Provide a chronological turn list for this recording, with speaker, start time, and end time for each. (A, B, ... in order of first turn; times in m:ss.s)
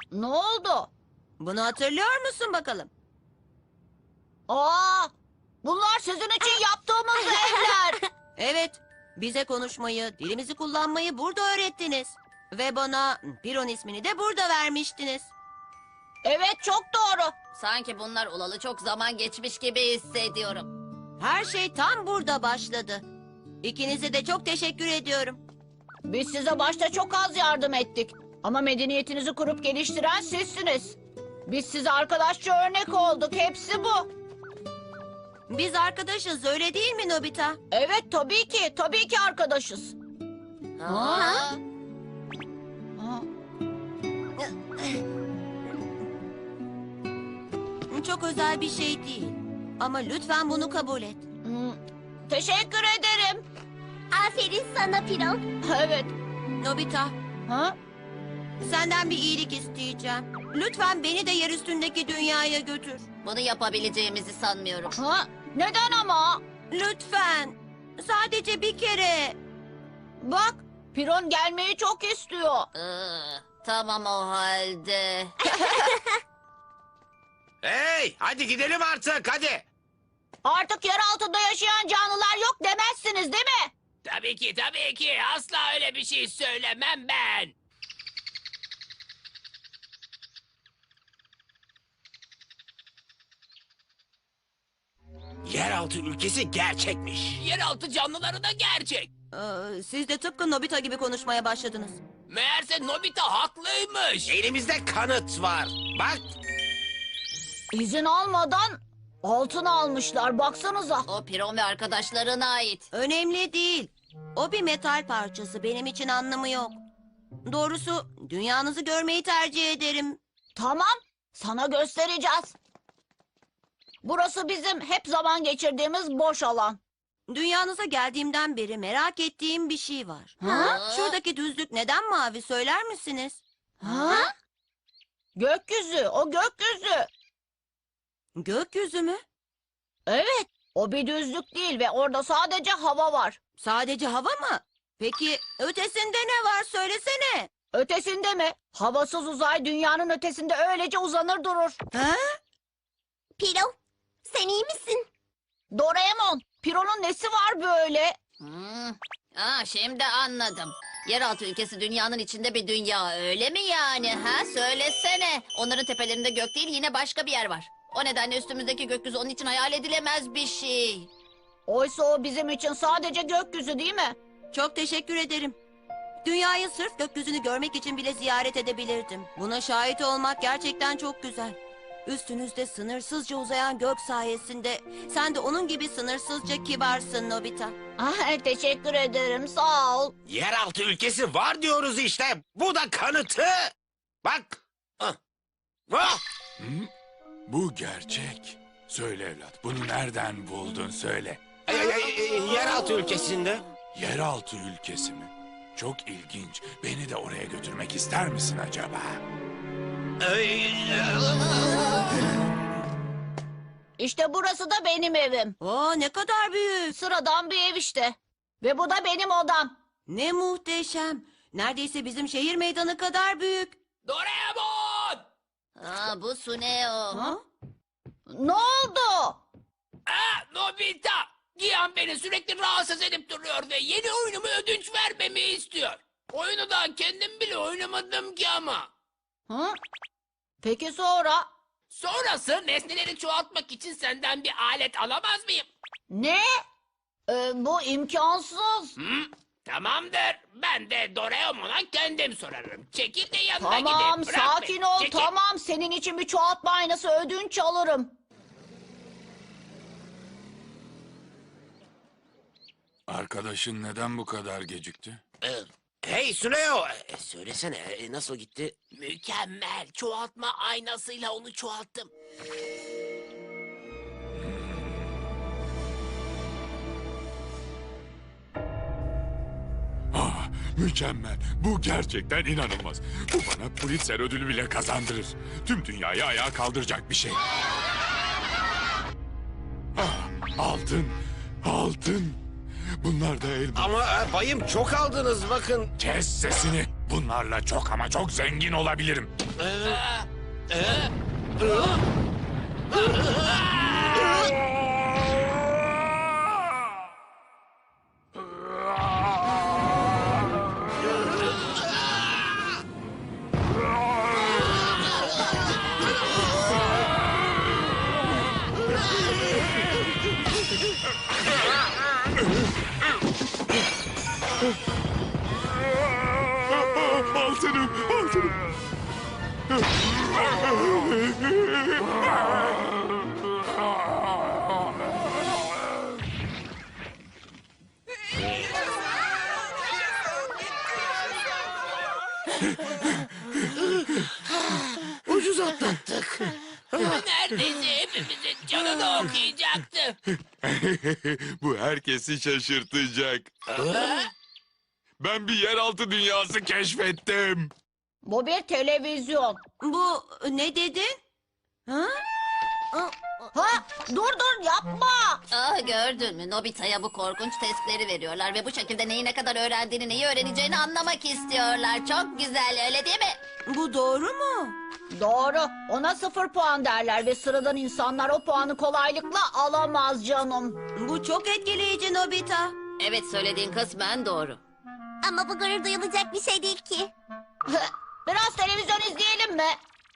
0:00.1-0:00.9 A
0:01.4-0:02.9 B
0:04.5-0:08.0 A
0:07.2-0:07.7 C
0:08.4-0:15.3 B
0:16.2-0:17.4 A
0:17.6-0:20.7 D
0:21.2-0:23.0 B
0:23.6-0:25.4 B
0:26.1-0:34.1 A
0:35.5-0:37.6 B
0:37.7-0:40.0 A
0:40.8-0:41.6 D
0:40.8-0:41.5 A
0:41.1-0:41.4 C
0:43.0-0:43.3 A
0:47.9-0:51.3 B
0:51.4-0:51.8 A
0:52.3-0:53.4 A
0:54.1-0:55.4 C
0:55.6-0:56.1 A
0:56.6-0:57.2 B
0:57.5-0:57.8 A
0:58.6-1:03.0 B
1:03.2-1:05.0 D
1:05.0-1:06.4 A
1:06.7-1:09.4 B
1:10.2-1:12.7 A
1:12.7-1:15.3 D
1:15.5-1:15.9 A
1:15.7-1:16.2 C
1:17.6-1:19.6 E
1:20.4-1:23.7 A
1:24.0-1:27.5 F
1:35.4-1:37.4 E
1:37.4-1:39.1 F
1:39.3-1:42.0 B
1:42.3-1:44.3 F
1:44.3-1:46.3 E
1:47.7-1:51.1 A
1:51.1-1:52.9 D
1:52.9-1:56.8 B
1:57.4-2:00.2 B
2:00.6-2:02.6 A
2:04.0-2:06.8 A
2:07.3-2:14.1 B
2:10.4-2:10.8 A
2:10.4-2:11.2 D
2:13.8-2:14.3 A
2:15.4-2:17.1 A
2:18.4-2:19.2 B
2:20.1-2:23.4 A
2:23.6-2:27.5 B
2:27.7-2:31.8 A
2:31.9-2:32.4 B
2:33.4-2:35.1 C
2:35.7-2:38.2 A
2:38.4-2:51.1 D
2:51.7-2:54.2 A
2:54.5-2:55.6 B
2:56.2-3:07.8 B
3:08.0-3:10.1 A
3:10.3-3:13.7 E
3:14.2-3:15.2 E
3:15.9-3:16.2 E
3:16.6-3:16.9 G
3:17.5-3:21.6 G
3:21.7-3:23.6 E
3:23.9-3:29.2 G
3:30.2-3:32.1 E
3:34.0-3:35.6 A
3:35.6-3:37.0 B
3:36.9-3:39.7 A
3:40.1-3:43.8 B
3:44.0-3:45.2 F
3:45.8-3:47.3 D
3:47.1-3:47.4 A
3:48.3-3:49.4 A
3:50.1-3:58.9 F
3:59.5-3:59.8 A
4:00.6-4:01.5 A
4:01.9-4:05.7 F
4:06.1-4:06.6 A
4:07.3-4:09.0 A
4:09.0-4:15.3 F
4:13.6-4:18.1 A
4:23.1-4:25.2 G
4:25.4-4:28.8 E
4:28.9-4:32.1 F
4:34.4-4:35.1 G
4:40.1-4:47.4 G
4:50.0-4:52.4 G
4:53.0-4:53.9 G
4:53.8-4:55.9 E
4:56.0-4:59.3 G
4:59.6-5:00.0 E
4:59.8-5:01.1 F
5:00.7-5:01.1 E
5:01.6-5:01.9 E
5:03.5-5:04.0 F
5:26.6-5:28.7 G
5:29.7-5:32.3 G
5:44.8-5:47.2 E
5:47.0-5:50.2 F
5:50.6-5:53.5 G
5:53.7-5:54.2 E
5:55.2-5:57.7 G
5:58.2-5:59.6 A
5:59.8-6:01.2 B
6:01.9-6:02.2 B
6:02.9-6:03.5 B
6:03.5-6:05.4 A
6:05.5-6:13.4 D
6:13.7-6:14.8 B
6:15.1-6:20.8 A
6:21.0-6:22.8 B
6:23.0-6:24.6 D
6:25.2-6:27.1 C
6:27.7-6:29.8 A